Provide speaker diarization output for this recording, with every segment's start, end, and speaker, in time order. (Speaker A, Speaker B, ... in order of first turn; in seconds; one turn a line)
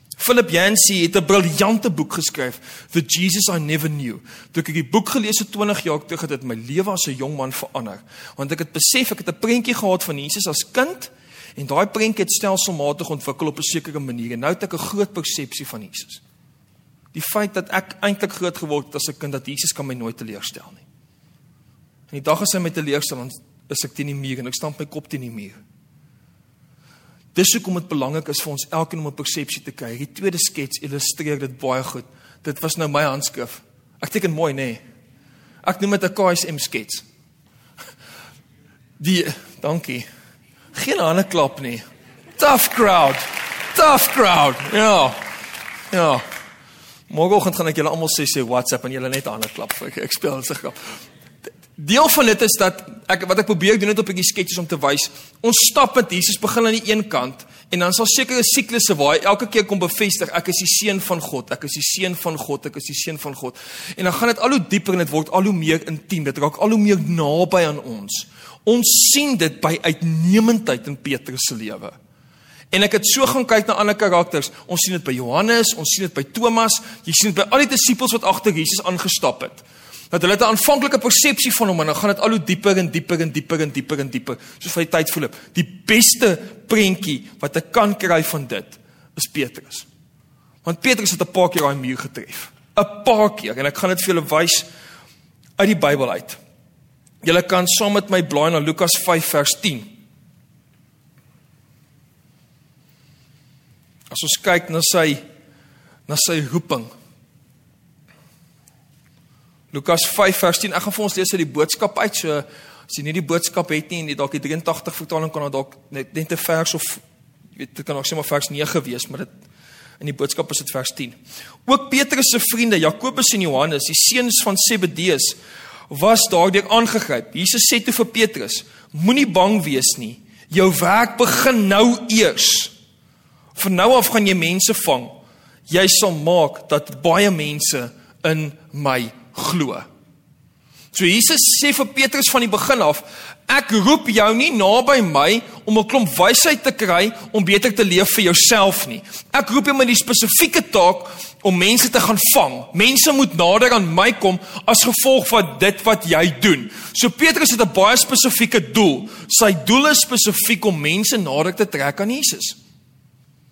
Speaker A: 0.2-16.2
Speaker A: 17.1-20.8
Speaker A: 22.1-25.6
Speaker A: 27.3-34.8
Speaker A: 35.6-37.0
Speaker A: 39.0-40.0
Speaker A: 40.7-41.8
Speaker A: 42.4-45.2
Speaker A: 45.9-46.2
Speaker A: 47.1-51.0
Speaker A: 51.8-72.0
Speaker A: 72.7-89.9
Speaker A: 90.6-94.7
Speaker A: 95.6-96.4
Speaker A: 97.2-100.0
Speaker A: 104.1-105.2
Speaker A: 106.1-106.9
Speaker A: 109.7-117.0
Speaker A: 117.5-119.3
Speaker A: 120.0-125.4
Speaker A: 125.9-132.7
Speaker A: 133.5-139.9
Speaker A: 140.9-162.6